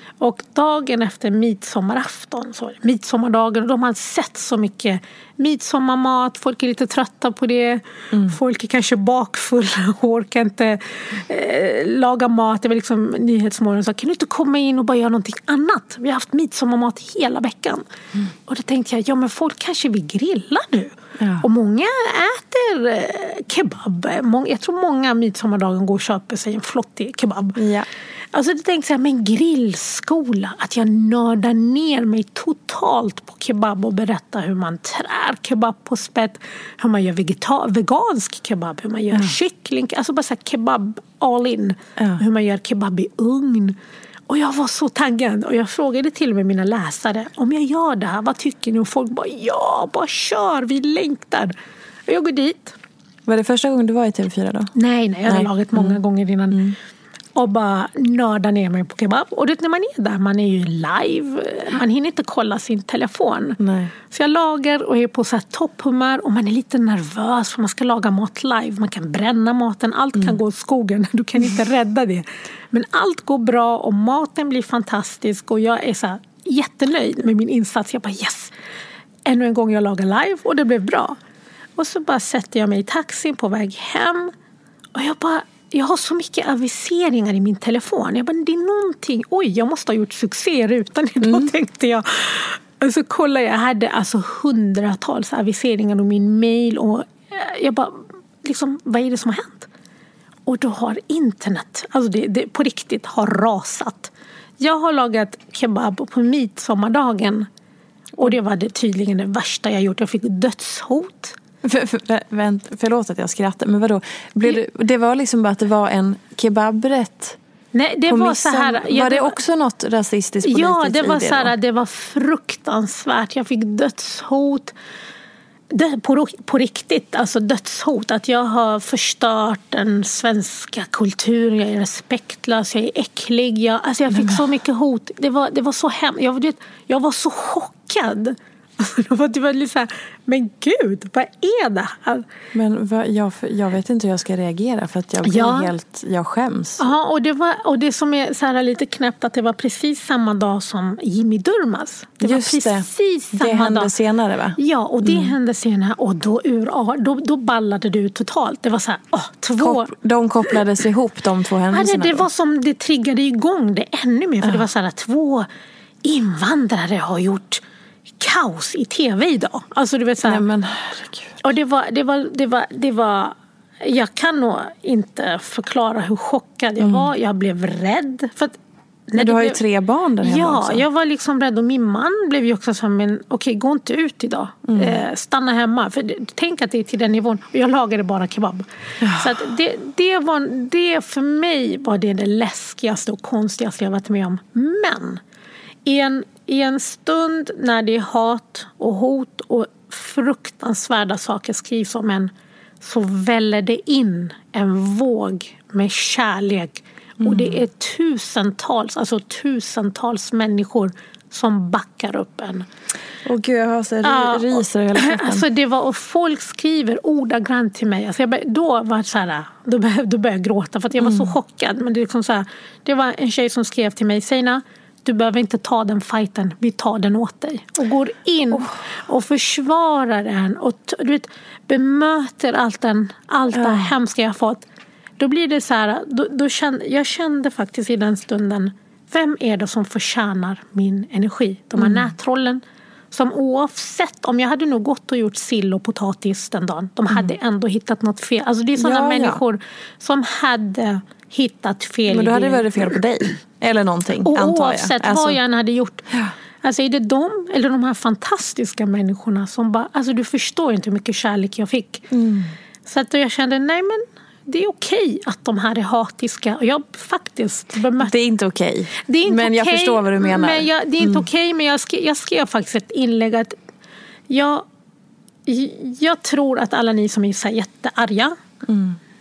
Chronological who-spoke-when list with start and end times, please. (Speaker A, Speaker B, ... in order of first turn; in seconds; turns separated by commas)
Speaker A: 0.2-17.9, Speaker B: 8.1-8.4, Speaker A: 18.5-27.6, Speaker B: 21.2-21.4, Speaker B: 27.6-27.9, Speaker A: 28.3-43.8, Speaker A: 44.3-51.5, Speaker A: 52.1-52.8, Speaker B: 53.3-54.7, Speaker A: 54.8-56.6, Speaker B: 55.3-56.8, Speaker A: 57.4-63.6, Speaker B: 63.6-63.9, Speaker A: 64.1-78.5, Speaker A: 79.3-81.2, Speaker A: 81.8-84.3, Speaker A: 85.0-99.7, Speaker B: 91.2-91.5, Speaker A: 100.5-107.5, Speaker A: 108.2-111.4, Speaker B: 111.6-117.4, Speaker A: 117.7-119.4, Speaker B: 118.1-121.5, Speaker A: 120.4-124.7, Speaker A: 125.7-142.3, Speaker B: 134.1-134.4, Speaker B: 142.5-146.9, Speaker A: 145.2-145.7, Speaker A: 146.8-153.9, Speaker B: 152.2-155.3, Speaker A: 154.6-159.9, Speaker B: 159.6-162.3, Speaker A: 161.7-165.5, Speaker A: 166.0-167.6, Speaker A: 168.2-170.4, Speaker B: 170.2-171.4, Speaker A: 171.4-178.6, Speaker B: 176.8-177.1, Speaker A: 179.1-179.6, Speaker B: 179.2-180.9, Speaker A: 180.2-195.2, Speaker B: 184.7-185.0, Speaker B: 189.0-189.3, Speaker A: 195.8-212.7, Speaker B: 207.2-207.6, Speaker B: 213.2-215.5, Speaker A: 214.0-234.6, Speaker B: 221.0-221.3, Speaker B: 233.5-233.9, Speaker A: 235.2-253.0, Speaker B: 241.8-242.1, Speaker B: 248.8-249.4, Speaker B: 252.1-255.4, Speaker A: 254.3-256.1, Speaker B: 256.1-256.3, Speaker A: 256.6-262.1, Speaker B: 262.1-262.5, Speaker A: 262.9-268.1, Speaker B: 268.0-271.3, Speaker A: 269.1-273.6, Speaker A: 274.3-274.7, Speaker A: 275.5-278.4, Speaker B: 278.6-279.0